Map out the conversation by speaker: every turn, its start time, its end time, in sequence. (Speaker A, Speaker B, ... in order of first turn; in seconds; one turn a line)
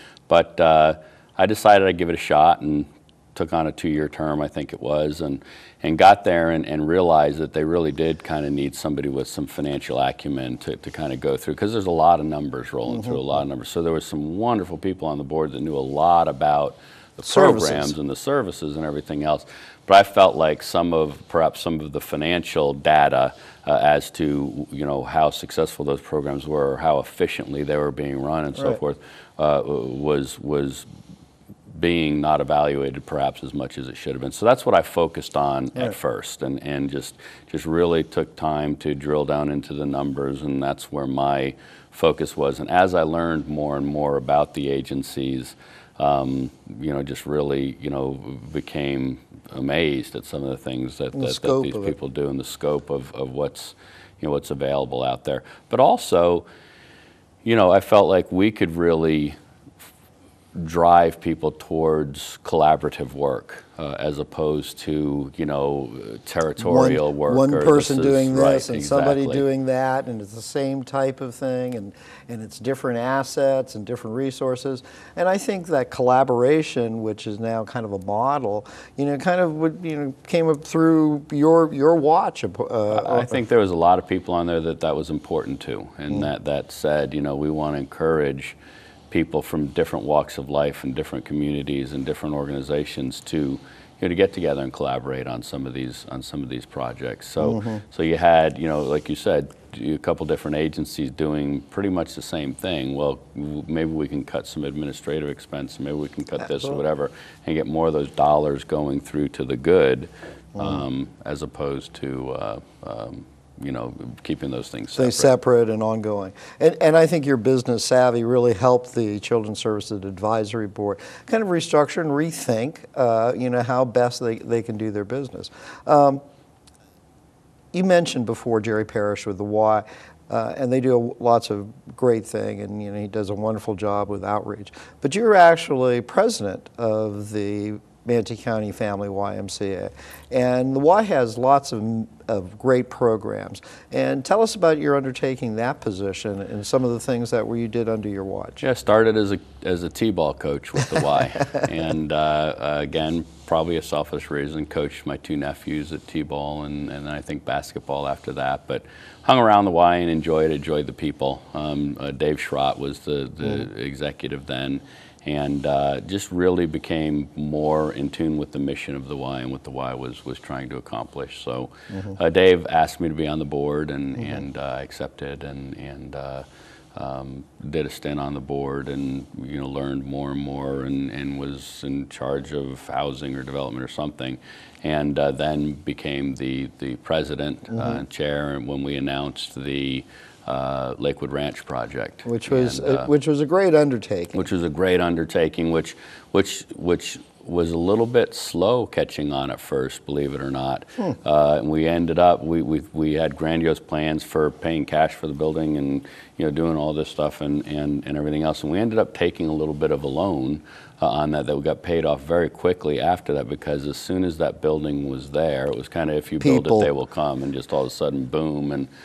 Speaker A: 0.3-30.9
Speaker B: 17.2-17.9
Speaker A: 31.7-56.5
Speaker B: 51.1-51.9
Speaker A: 57.4-59.4
Speaker A: 60.5-69.4
Speaker B: 66.6-83.4
Speaker A: 82.9-88.6
Speaker A: 89.1-115.3
Speaker B: 97.4-97.8
Speaker B: 115.0-126.2
Speaker B: 127.7-148.6
Speaker A: 148.6-193.1
Speaker B: 192.2-194.5
Speaker A: 194.3-218.9
Speaker B: 216.4-216.9